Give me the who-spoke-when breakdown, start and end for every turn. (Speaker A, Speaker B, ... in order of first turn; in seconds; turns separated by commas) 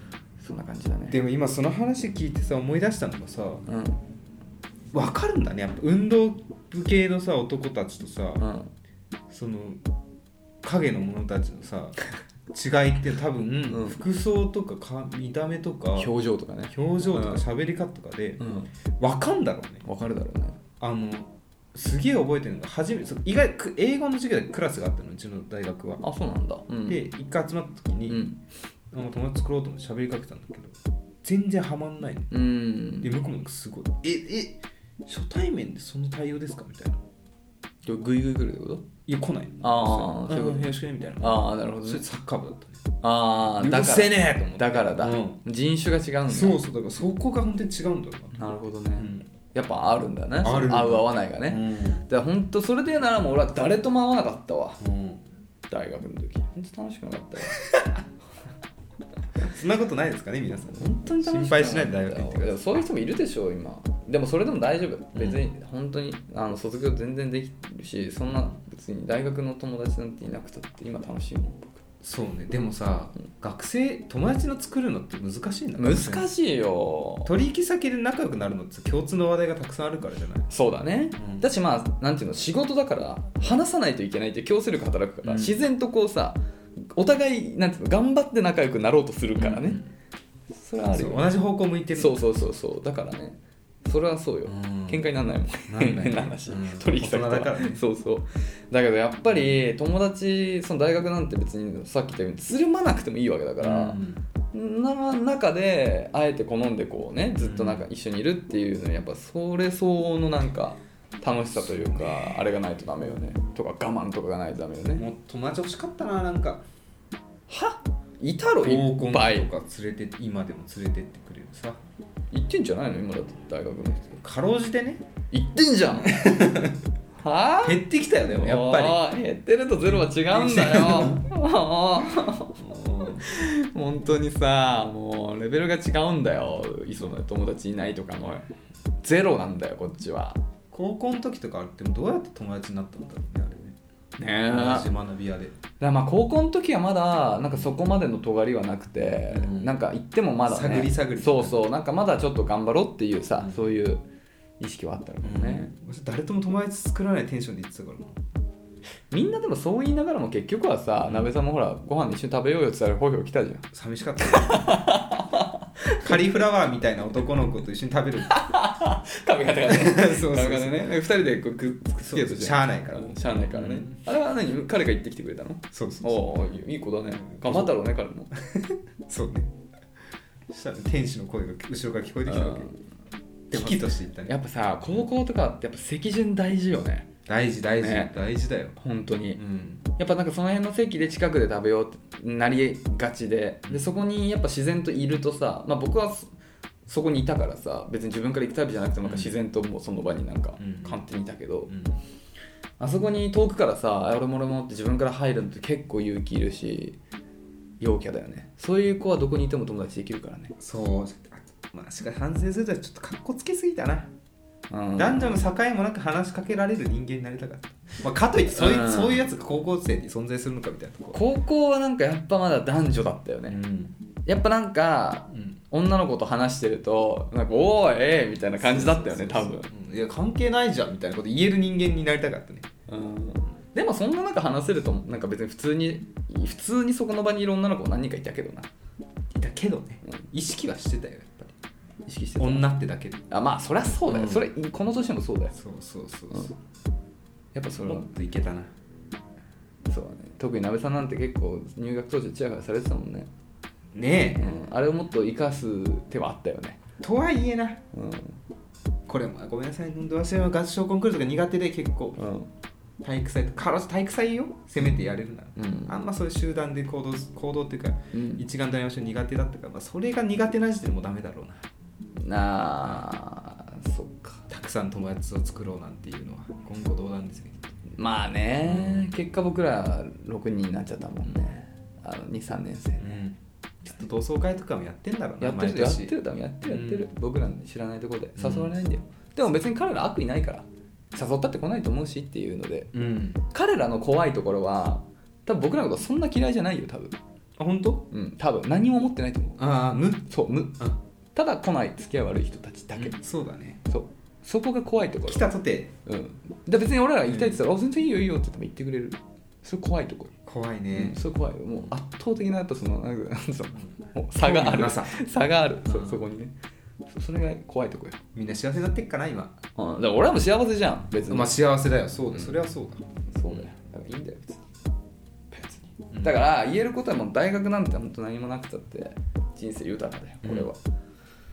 Speaker A: 0.4-1.2, Speaker B: 1.1-3.6, Speaker A: 3.7-4.0, Speaker B: 4.9-8.4, Speaker A: 8.4-8.7, Speaker B: 9.3-9.8, Speaker B: 10.6-12.0, Speaker B: 12.5-16.1, Speaker A: 13.7-14.0, Speaker A: 16.0-17.4, Speaker B: 16.7-18.4, Speaker A: 18.4-18.7, Speaker B: 19.0-19.9, Speaker A: 19.8-20.6, Speaker B: 20.8-26.0, Speaker A: 26.0-27.0, Speaker B: 26.9-28.2, Speaker A: 28.1-28.4, Speaker B: 28.9-32.3, Speaker A: 32.3-33.1, Speaker B: 33.0-37.0, Speaker A: 37.8-38.9, Speaker B: 39.0-42.8, Speaker A: 39.6-42.0, Speaker A: 43.0-46.6, Speaker B: 43.6-45.4, Speaker B: 46.3-48.4, Speaker A: 48.3-54.8, Speaker B: 49.0-49.3, Speaker B: 50.4-52.1, Speaker B: 54.8-55.2, Speaker A: 55.7-57.6, Speaker B: 59.4-62.6, Speaker A: 60.7-71.8, Speaker B: 65.1-65.5, Speaker B: 72.0-76.3, Speaker A: 75.8-77.3, Speaker B: 77.2-80.5, Speaker A: 80.5-89.8, Speaker B: 81.2-81.5, Speaker B: 85.2-85.6, Speaker B: 89.4-89.9, Speaker A: 90.5-91.3, Speaker B: 90.9-92.3, Speaker A: 91.9-104.0, Speaker B: 94.5-95.0, Speaker B: 95.7-97.8, Speaker B: 103.6-104.2, Speaker A: 104.5-115.0, Speaker B: 107.4-107.8, Speaker B: 111.6-112.5, Speaker B: 114.9-116.7, Speaker A: 117.5-119.5, Speaker B: 118.6-121.8, Speaker A: 122.3-124.2, Speaker B: 124.1-125.0, Speaker A: 125.3-126.5, Speaker B: 126.0-126.8, Speaker A: 127.2-138.5, Speaker B: 127.6-129.0, Speaker B: 129.8-131.2, Speaker B: 132.6-133.3, Speaker A: 139.0-140.4, Speaker B: 140.7-143.8, Speaker A: 144.2-144.9, Speaker B: 144.5-145.6, Speaker A: 145.8-154.0, Speaker B: 149.3-149.7, Speaker B: 150.4-151.6, Speaker A: 154.6-155.7, Speaker B: 155.2-158.2, Speaker A: 159.1-163.7, Speaker B: 161.0-161.3, Speaker B: 163.7-164.8, Speaker A: 164.2-166.4, Speaker B: 166.0-168.4, Speaker A: 168.2-178.3, Speaker B: 169.6-170.8, Speaker B: 172.0-174.0, Speaker B: 175.7-176.3, Speaker B: 177.3-177.7, Speaker B: 179.1-179.5, Speaker B: 180.5-182.7, Speaker A: 182.2-182.8, Speaker B: 183.5-184.3, Speaker A: 183.5-187.1, Speaker B: 187.3-188.8, Speaker A: 187.8-188.2, Speaker A: 188.8-196.3, Speaker B: 189.3-189.8, Speaker A: 196.9-201.7, Speaker B: 199.0-199.3, Speaker B: 200.6-201.0, Speaker B: 201.7-202.0, Speaker A: 202.8-207.0, Speaker A: 207.8-210.5, Speaker B: 210.6-214.1, Speaker A: 214.7-215.4, Speaker B: 215.0-221.2, Speaker A: 218.5-219.3, Speaker A: 221.1-223.6, Speaker B: 223.5-223.9, Speaker A: 224.2-229.7, Speaker B: 228.6-232.7, Speaker A: 232.9-238.7, Speaker B: 239.3-241.5, Speaker A: 242.1-242.7, Speaker B: 242.4-243.2, Speaker A: 243.3-245.5, Speaker B: 244.1-244.5, Speaker B: 245.5-246.5, Speaker A: 247.5-248.1, Speaker B: 247.7-248.7, Speaker A: 249.8-253.3, Speaker B: 253.9-254.5, Speaker A: 254.3-256.8, Speaker B: 257.0-257.8, Speaker A: 257.9-258.4, Speaker B: 259.1-262.2, Speaker A: 262.2-262.5, Speaker B: 263.0-271.6, Speaker A: 265.6-265.9, Speaker A: 268.1-268.4, Speaker A: 272.2-274.4, Speaker B: 274.5-277.8, Speaker A: 277.9-283.1, Speaker B: 278.6-279.1, Speaker B: 283.0-287.0, Speaker A: 285.4-292.9, Speaker B: 288.4-288.7, Speaker B: 292.9-293.4, Speaker A: 293.5-297.1, Speaker B: 297.6-298.1, Speaker A: 298.1-299.6, Speaker B: 299.6-300.3, Speaker A: 300.3-300.8, Speaker A: 301.3-303.2, Speaker B: 303.0-303.8, Speaker A: 303.9-305.5, Speaker B: 305.2-305.9, Speaker A: 306.0-310.3, Speaker B: 307.3-307.6, Speaker B: 310.4-311.2, Speaker A: 310.9-316.5, Speaker B: 314.4-315.2, Speaker B: 315.9-316.2, Speaker A: 317.1-318.2, Speaker B: 318.3-319.5, Speaker A: 319.8-321.6, Speaker B: 321.3-323.7, Speaker A: 323.3-324.7, Speaker A: 325.5-330.8, Speaker B: 326.1-326.4, Speaker B: 330.4-330.7